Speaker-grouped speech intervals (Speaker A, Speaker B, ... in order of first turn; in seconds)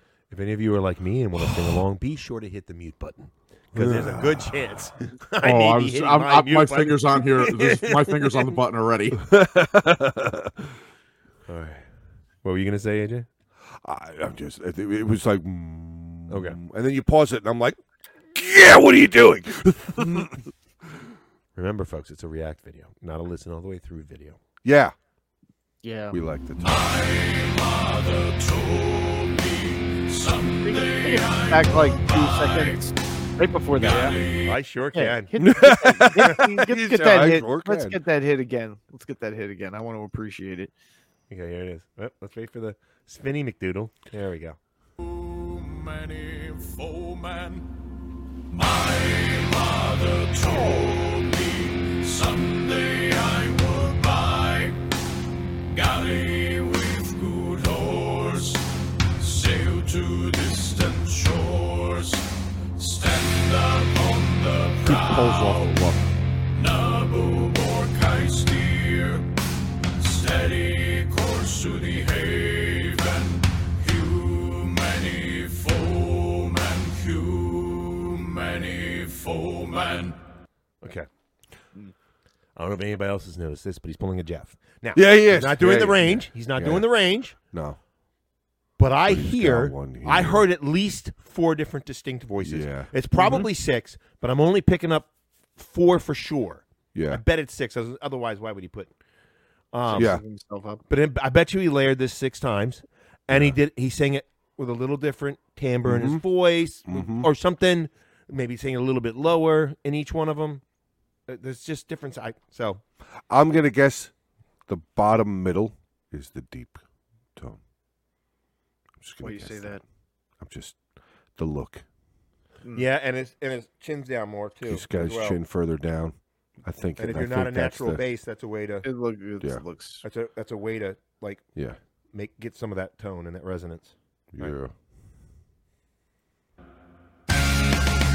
Speaker A: 0.3-8.0, 11.5-11.9, 12.4-13.3, 16.3-16.6, 21.6-24.4, 33.8-35.3, 41.3-44.6, 80.8-81.1, 82.6-87.4, 88.8-98.9, 99.7-100.2, 100.9-110.6, 111.3-112.8, 122.7-125.4, 127.0-128.9, 130.0-131.5, 132.1-134.6
Speaker B: 3.8-4.8, 9.3-10.6, 13.8-17.8, 18.3-20.3, 24.6-24.9, 26.1-26.9, 35.4-38.0, 84.9-87.8, 89.1-90.5, 92.4-93.5, 96.9-97.2, 100.0-100.2, 103.3-103.6, 105.8-106.2, 106.8-107.3, 113.3-114.1, 114.7-116.8, 119.0-119.8, 120.4-120.8, 121.4-121.8, 124.7-128.0, 134.3-134.7
Speaker C: 5.4-9.2
Speaker D: 25.8-26.2, 30.6-34.3, 34.9-40.7, 65.0-65.9, 99.9-100.8, 119.2-119.8, 128.8-130.0
Speaker E: 27.1-31.3, 45.0-47.7, 48.5-54.8, 55.7-58.6, 59.2-62.2, 62.8-65.6, 66.6-69.3, 70.0-80.2